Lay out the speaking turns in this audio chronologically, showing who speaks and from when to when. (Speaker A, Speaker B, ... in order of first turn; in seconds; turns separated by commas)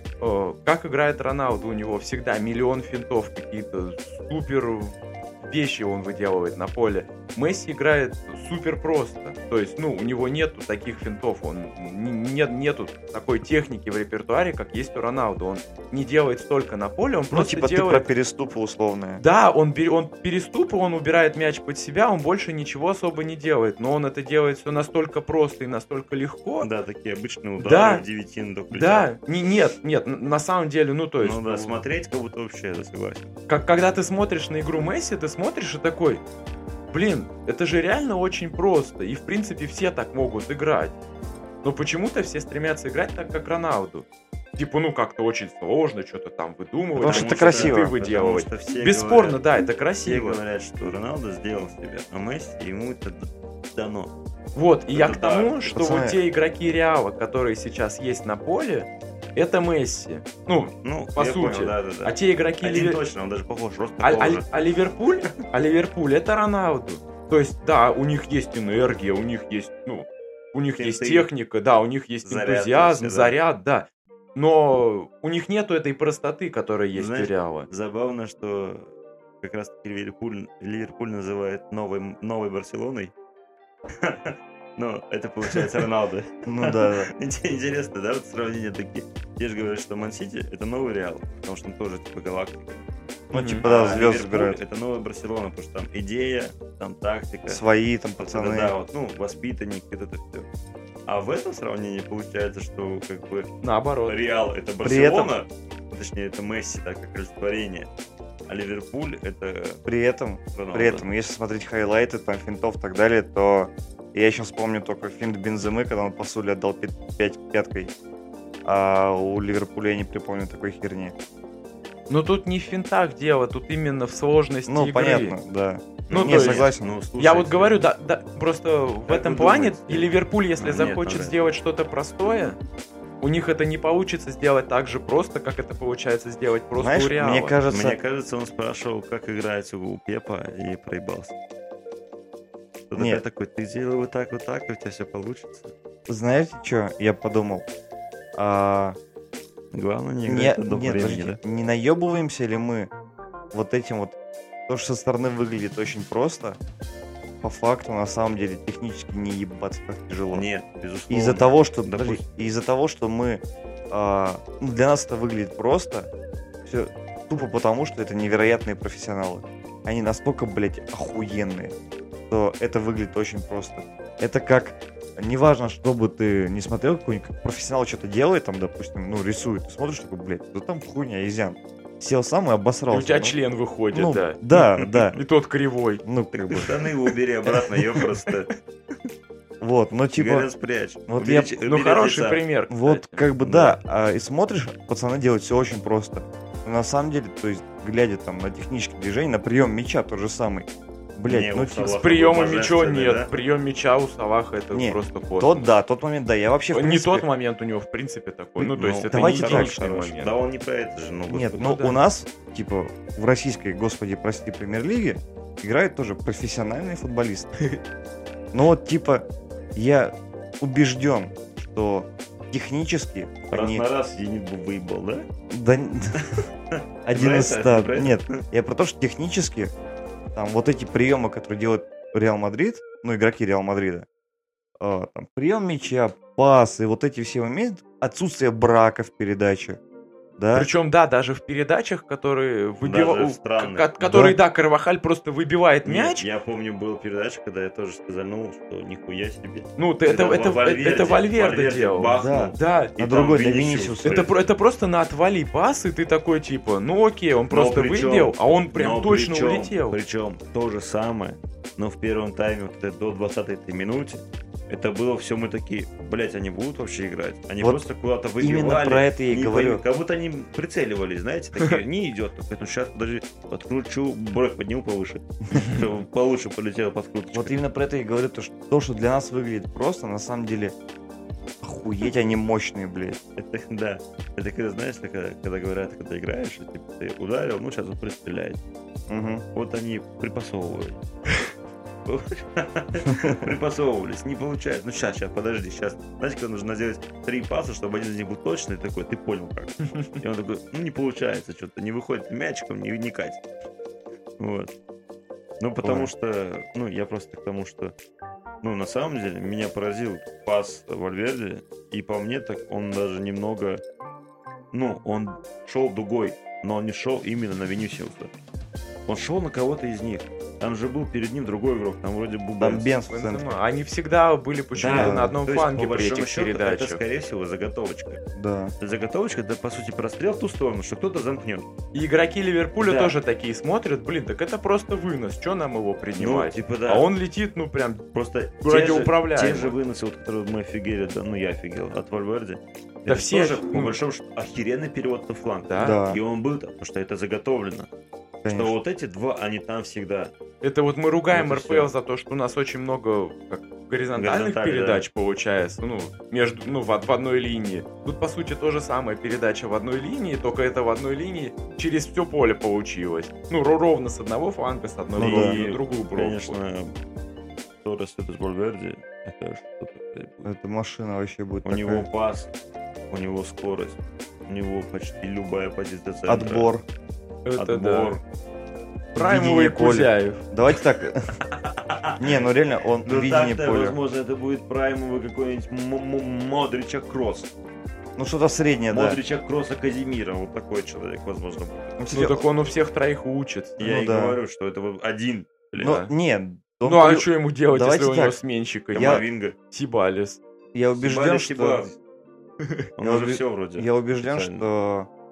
Speaker A: 0.2-18.1, Speaker B: 17.3-19.2, Speaker A: 19.2-26.7, Speaker C: 26.6-29.1, Speaker A: 27.6-28.0, Speaker A: 28.7-31.8, Speaker C: 31.2-33.3, Speaker A: 33.5-36.2, Speaker A: 36.9-41.0, Speaker A: 41.6-50.4, Speaker B: 47.0-47.9, Speaker C: 47.0-49.4, Speaker C: 50.0-54.1, Speaker A: 54.5-63.0, Speaker C: 54.9-55.6, Speaker B: 55.7-56.2, Speaker C: 60.8-64.5, Speaker A: 64.0-77.7, Speaker C: 70.8-71.3, Speaker C: 72.2-73.4, Speaker C: 77.0-83.1, Speaker C: 83.9-92.9, Speaker B: 86.5-87.1, Speaker A: 93.3-93.7, Speaker B: 93.3-94.6, Speaker C: 93.6-97.6, Speaker B: 97.5-98.7, Speaker C: 98.2-100.5, Speaker C: 101.1-103.5, Speaker A: 103.6-104.2, Speaker C: 104.1-107.9, Speaker B: 104.8-105.3, Speaker C: 108.5-109.8, Speaker B: 109.9-117.9, Speaker C: 110.5-111.1, Speaker B: 118.7-121.2, Speaker A: 122.1-125.4, Speaker B: 124.7-126.9, Speaker C: 126.1-127.8, Speaker A: 126.1-132.6, Speaker C: 129.1-131.5, Speaker A: 133.2-137.6, Speaker B: 136.8-138.0, Speaker C: 137.7-141.3, Speaker C: 142.9-145.7, Speaker B: 143.0-143.2, Speaker B: 146.1-147.7, Speaker B: 148.4-149.0, Speaker C: 149.7-151.4, Speaker B: 150.3-152.9, Speaker B: 153.5-154.2, Speaker B: 154.7-156.6, Speaker B: 157.4-160.5, Speaker C: 160.3-162.2, Speaker B: 161.1-166.1, Speaker B: 166.6-171.8, Speaker B: 172.3-183.4, Speaker A: 182.9-186.0, Speaker B: 183.9-185.2, Speaker B: 186.0-186.7, Speaker C: 186.3-188.5, Speaker A: 188.0-188.3, Speaker B: 189.6-190.5, Speaker C: 190.2-192.4, Speaker B: 191.1-191.5, Speaker A: 191.6-193.2, Speaker B: 192.7-202.0, Speaker C: 193.4-193.8, Speaker C: 201.3-203.3, Speaker A: 201.8-205.7, Speaker B: 204.7-207.3, Speaker A: 206.7-210.3, Speaker C: 208.6-211.8, Speaker B: 209.1-209.8, Speaker B: 211.3-217.5, Speaker A: 211.6-212.0, Speaker B: 218.5-223.8, Speaker C: 223.5-225.3, Speaker B: 225.5-226.4, Speaker C: 226.2-228.4, Speaker B: 227.1-229.7, Speaker B: 230.3-234.1, Speaker B: 234.8-239.8, Speaker B: 240.4-240.7, Speaker A: 240.5-246.2, Speaker C: 242.8-243.9, Speaker B: 244.0-244.4, Speaker C: 245.8-254.3, Speaker A: 249.8-252.9, Speaker B: 252.1-254.3, Speaker A: 254.0-260.0, Speaker C: 257.5-277.6, Speaker B: 268.4-269.8, Speaker B: 277.3-280.7, Speaker B: 281.6-283.2, Speaker C: 283.4-288.6, Speaker B: 289.1-289.4, Speaker C: 289.6-291.0, Speaker C: 292.1-303.4, Speaker B: 293.1-293.5, Speaker C: 304.4-304.7, Speaker C: 305.6-307.9, Speaker B: 305.8-306.1, Speaker C: 308.6-313.8, Speaker C: 314.7-318.3, Speaker C: 319.1-322.9, Speaker B: 322.6-323.6, Speaker A: 323.1-327.0, Speaker C: 324.8-328.2, Speaker B: 324.8-325.3, Speaker B: 328.4-328.7, Speaker C: 328.8-331.7, Speaker A: 331.9-338.0, Speaker C: 332.8-333.2, Speaker C: 336.2-337.1, Speaker C: 338.1-347.9, Speaker A: 338.6-339.7, Speaker A: 343.1-344.0, Speaker A: 345.7-346.0, Speaker B: 345.8-346.2, Speaker B: 348.4-348.7, Speaker C: 348.5-350.3, Speaker A: 350.6-366.6, Speaker C: 351.3-351.9, Speaker C: 354.1-355.1, Speaker B: 365.2-365.6, Speaker C: 365.2-366.9, Speaker C: 367.8-370.5, Speaker B: 370.4-372.1, Speaker C: 371.6-372.5, Speaker C: 373.1-376.7, Speaker B: 376.3-376.8, Speaker A: 377.5-378.2, Speaker C: 377.6-378.2, Speaker A: 379.1-380.4, Speaker B: 379.1-381.4, Speaker C: 381.5-382.4, Speaker B: 382.2-384.0, Speaker C: 383.1-387.5, Speaker B: 388.2-389.2, Speaker C: 388.9-392.0, Speaker B: 392.0-392.4, Speaker A: 392.1-393.8, Speaker C: 393.8-396.0, Speaker B: 393.8-394.4, Speaker B: 395.8-398.4, Speaker A: 395.8-396.1, Speaker A: 396.8-400.4, Speaker C: 398.9-399.6, Speaker B: 399.0-399.2, Speaker B: 400.7-401.9, Speaker C: 400.9-402.0, Speaker C: 403.0-404.6, Speaker B: 403.0-405.1